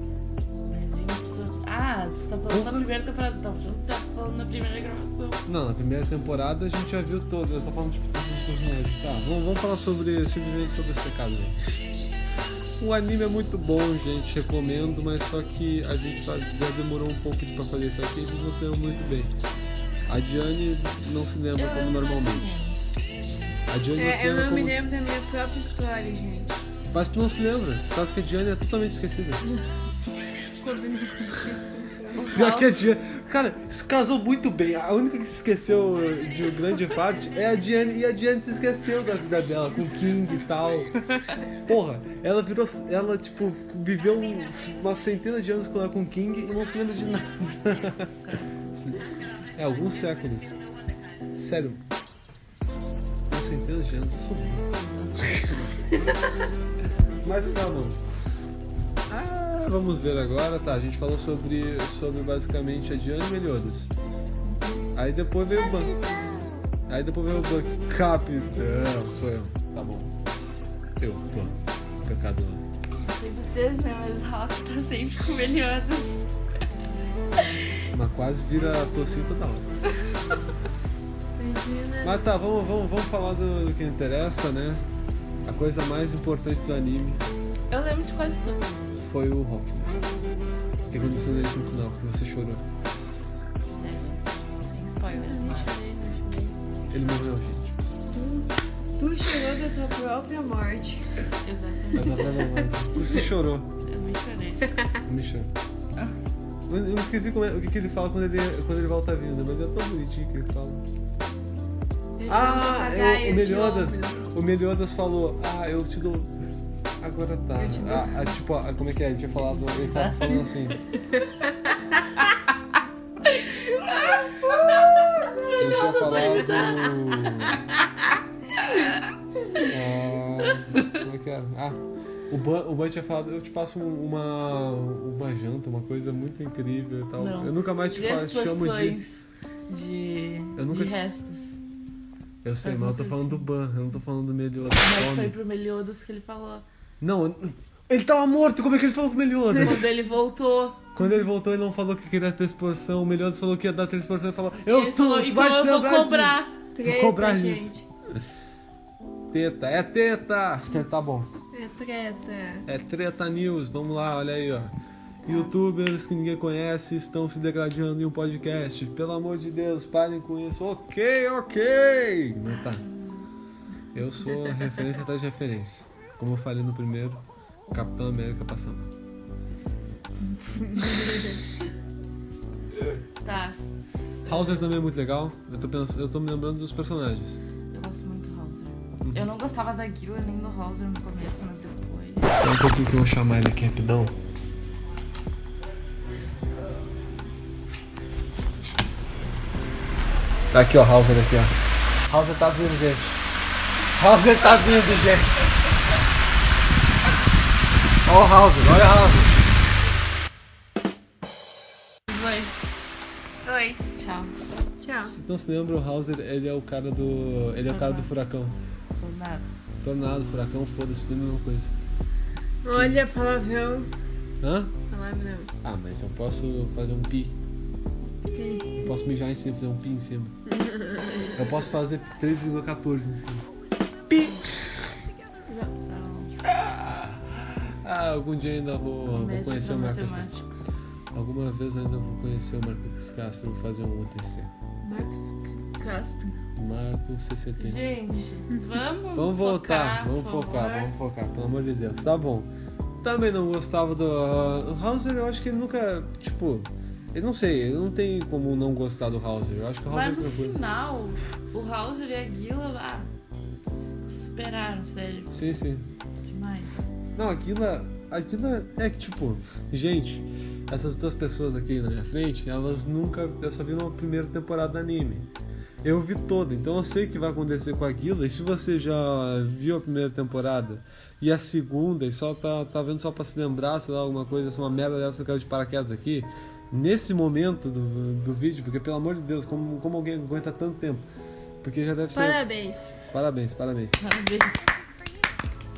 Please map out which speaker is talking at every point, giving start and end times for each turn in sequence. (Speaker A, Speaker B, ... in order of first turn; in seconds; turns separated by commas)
Speaker A: 0.7-5.4, Speaker B: 2.5-2.9, Speaker B: 5.5-11.6, Speaker B: 12.8-19.3, Speaker B: 20.1-22.5, Speaker A: 21.6-23.6, Speaker B: 23.7-24.8, Speaker C: 23.9-26.6, Speaker B: 26.9-29.5, Speaker C: 30.6-32.3, Speaker A: 32.1-32.8, Speaker B: 32.3-41.0, Speaker B: 41.6-48.1, Speaker A: 48.1-49.6, Speaker B: 48.8-49.0, Speaker B: 49.5-50.6, Speaker B: 51.4-51.8, Speaker B: 53.3-56.0, Speaker A: 54.7-55.5, Speaker B: 57.2-58.0, Speaker B: 59.1-63.9, Speaker A: 64.4-64.8, Speaker B: 64.9-66.0, Speaker A: 66.0-66.3, Speaker B: 66.9-70.1, Speaker B: 71.0-72.6, Speaker A: 73.0-76.2, Speaker B: 77.9-79.7, Speaker C: 81.4-82.4, Speaker B: 82.0-84.8, Speaker B: 85.4-87.3, Speaker A: 87.7-88.8, Speaker B: 89.0-90.1, Speaker B: 90.9-92.6, Speaker A: 93.7-95.8, Speaker C: 95.1-96.6, Speaker B: 96.9-97.8, Speaker C: 98.1-101.2, Speaker A: 101.4-102.2, Speaker B: 101.9-103.7, Speaker C: 102.3-103.2, Speaker A: 103.8-104.7, Speaker B: 105.0-105.5, Speaker B: 106.7-110.8, Speaker C: 112.2-114.2, Speaker B: 112.3-116.3, Speaker B: 117.0-120.8, Speaker C: 117.5-118.3, Speaker A: 119.7-120.7, Speaker A: 123.2-127.5, Speaker B: 125.6-127.6, Speaker A: 128.7-129.0, Speaker B: 129.6-139.0, Speaker A: 130.6-130.8, Speaker A: 137.2-141.6, Speaker B: 140.6-140.9, Speaker B: 142.4-145.3, Speaker A: 142.6-143.5, Speaker A: 144.8-146.6, Speaker B: 147.0-149.9, Speaker A: 149.5-150.9, Speaker B: 150.9-157.7, Speaker A: 154.7-156.5, Speaker C: 156.7-157.8, Speaker B: 159.3-161.3, Speaker C: 161.5-162.7, Speaker B: 162.7-164.7, Speaker B: 165.2-172.8, Speaker A: 172.8-173.2, Speaker B: 173.9-178.9, Speaker A: 180.5-181.2, Speaker C: 180.8-181.2, Speaker A: 183.2-183.6, Speaker B: 184.2-187.4, Speaker A: 187.7-192.4, Speaker B: 189.0-189.3, Speaker B: 192.4-194.1, Speaker B: 200.5-201.5, Speaker B: 202.1-203.2, Speaker B: 203.9-205.5, Speaker B: 208.1-209.4, Speaker A: 212.1-212.5, Speaker C: 213.4-213.8, Speaker A: 213.9-214.3, Speaker C: 214.8-215.1, Speaker B: 215.0-218.5, Speaker A: 217.6-218.3, Speaker A: 219.0-219.5, Speaker B: 219.8-221.7, Speaker C: 222.6-223.9, Speaker B: 222.7-223.0, Speaker B: 224.4-224.7, Speaker C: 224.9-225.5, Speaker B: 225.6-227.3, Speaker C: 228.3-228.9, Speaker B: 228.8-230.3, Speaker C: 230.4-231.6, Speaker B: 231.3-233.5, Speaker B: 234.1-234.8, Speaker C: 235.4-235.7, Speaker A: 235.8-236.3, Speaker B: 236.4-240.3, Speaker A: 239.0-240.7, Speaker B: 241.1-244.5, Speaker C: 244.8-246.3, Speaker B: 246.6-247.9, Speaker A: 247.6-250.9, Speaker B: 249.1-252.5, Speaker B: 253.0-260.6, Speaker A: 259.9-263.1, Speaker A: 264.1-265.3, Speaker B: 265.3-265.9, Speaker A: 266.2-266.9, Speaker B: 267.1-275.3, Speaker B: 275.8-291.1, Speaker B: 291.6-292.4, Speaker C: 292.1-293.0, Speaker B: 293.1-294.0, Speaker A: 294.0-294.7